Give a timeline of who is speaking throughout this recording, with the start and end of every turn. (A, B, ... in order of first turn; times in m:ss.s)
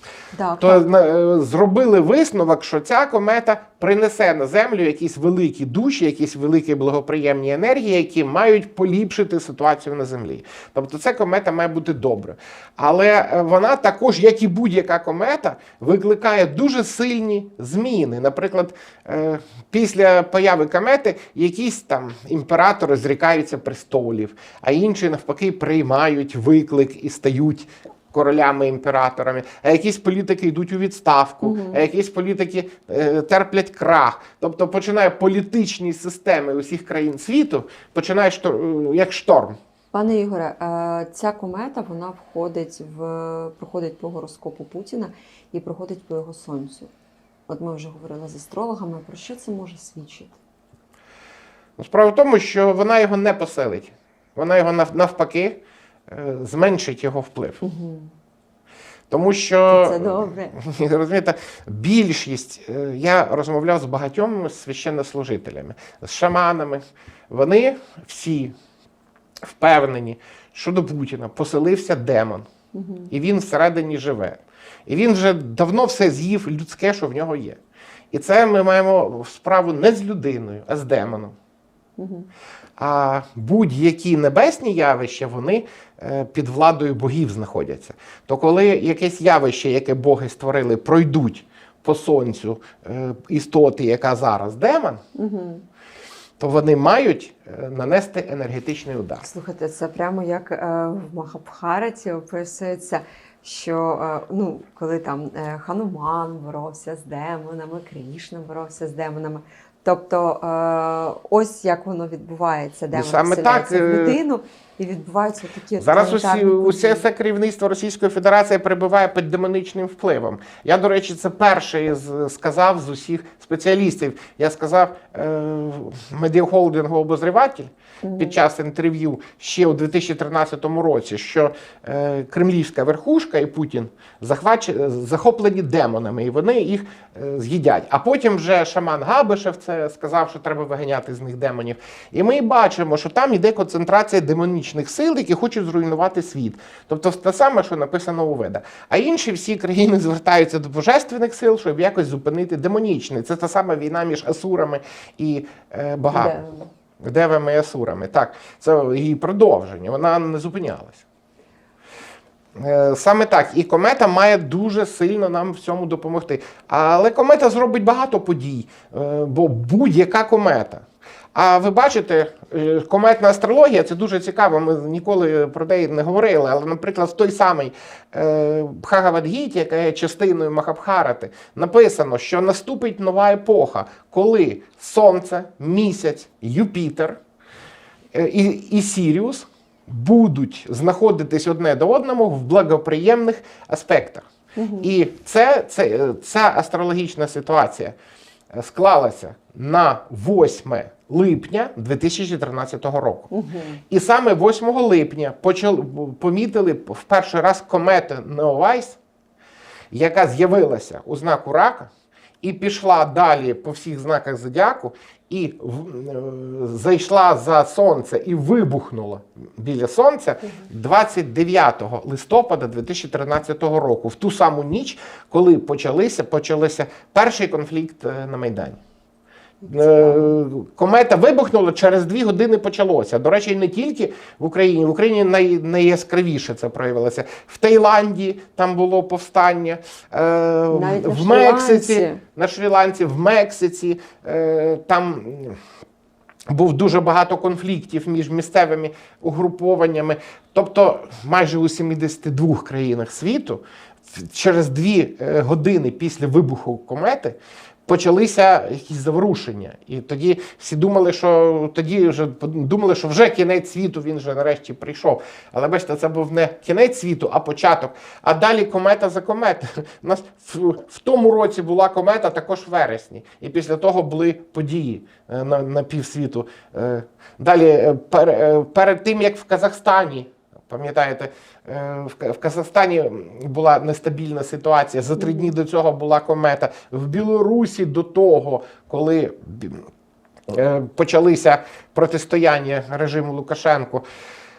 0:00.3-0:00.8 A
0:00.6-0:39.6 B
0:31.4-0:31.9 A
0:39.9-0:46.9 A
0:47.5-0:50.4 A
0:51.8-0:57.6 B
0:57.6-0:58.1 A
0:59.1-1:08.5 B
0:59.7-1:00.6 A
1:09.4-1:12.5 B
1:12.7-1:13.1 A
1:13.1-1:17.6 B
1:18.1-1:21.3 B
1:22.0-1:22.3 A
1:22.8-1:35.0 B
1:35.2-1:35.6 A
1:36.4-1:39.2 B
1:39.2-1:57.1 A
1:52.9-1:54.2 B
1:55.8-2:36.4 B
2:08.0-2:08.4 A
2:36.1-2:36.7 A
2:37.0-2:41.0 B
2:42.6-2:50.8 B
2:51.3-3:07.2 B
3:08.1-3:14.2 B
3:14.6-3:14.9 A
3:14.8-3:17.9 B
3:18.5-3:23.3 B
3:23.3-3:23.8 A
3:23.9-3:29.0 B
3:29.9-3:31.9 B
3:32.4-3:48.8 B
3:49.6-3:50.3 A
3:49.7-4:05.6 B
4:00.7-4:02.2 A
4:06.5-4:49.8 B
4:45.2-4:45.5 A
4:50.5-4:54.0 B